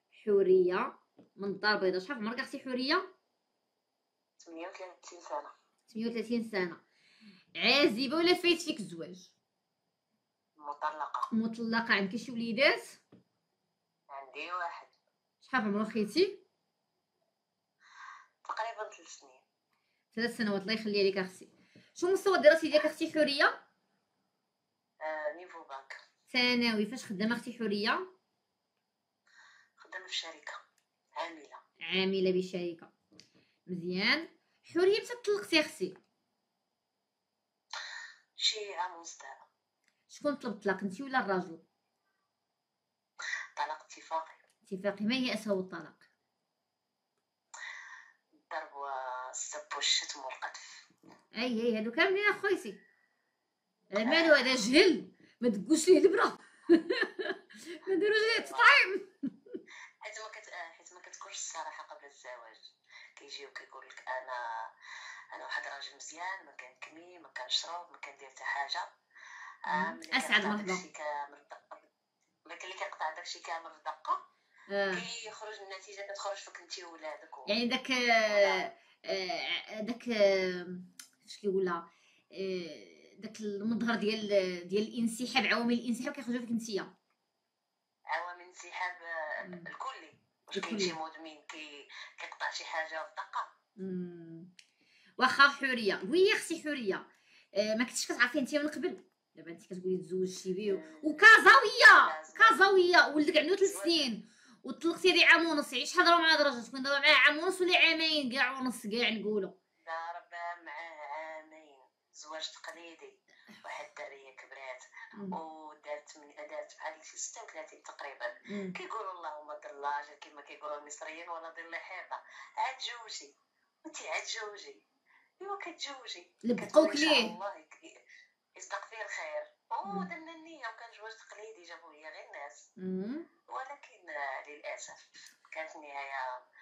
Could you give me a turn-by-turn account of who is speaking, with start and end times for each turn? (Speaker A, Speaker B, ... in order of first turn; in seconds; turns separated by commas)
Speaker A: 0.1-3.0, Speaker B: 4.4-5.5, Speaker A: 5.9-6.8, Speaker A: 7.5-9.3, Speaker B: 10.6-11.3, Speaker A: 11.3-13.0, Speaker B: 14.1-14.9, Speaker A: 15.4-16.4, Speaker B: 18.4-19.4, Speaker A: 20.1-23.5, Speaker B: 25.0-26.0, Speaker A: 26.3-28.1, Speaker B: 29.8-30.6, Speaker B: 31.2-31.6, Speaker A: 31.8-32.9, Speaker A: 33.7-35.9, Speaker B: 38.4-39.5, Speaker A: 40.1-41.6, Speaker B: 43.5-44.4, Speaker A: 44.7-46.0, Speaker B: 48.5-50.8, Speaker A: 51.3-52.8, Speaker A: 53.9-59.6, Speaker B: 54.0-54.4, Speaker B: 58.2-58.6, Speaker B: 60.0-62.6, Speaker B: 63.2-64.7, Speaker B: 65.3-68.9, Speaker B: 69.7-71.9, Speaker A: 69.7-70.8, Speaker B: 72.5-74.2, Speaker A: 74.7-75.0, Speaker B: 74.9-77.5, Speaker A: 77.5-86.9, Speaker B: 78.3-78.7, Speaker B: 88.1-93.5, Speaker A: 90.5-91.0, Speaker A: 93.8-94.5, Speaker A: 95.2-109.5, Speaker B: 100.6-102.7, Speaker B: 103.6-104.1, Speaker B: 109.8-123.3, Speaker A: 118.5-118.8, Speaker B: 123.8-124.8, Speaker B: 125.4-127.9, Speaker A: 126.4-127.3, Speaker B: 128.6-132.7, Speaker A: 132.8-133.3, Speaker B: 133.5-136.4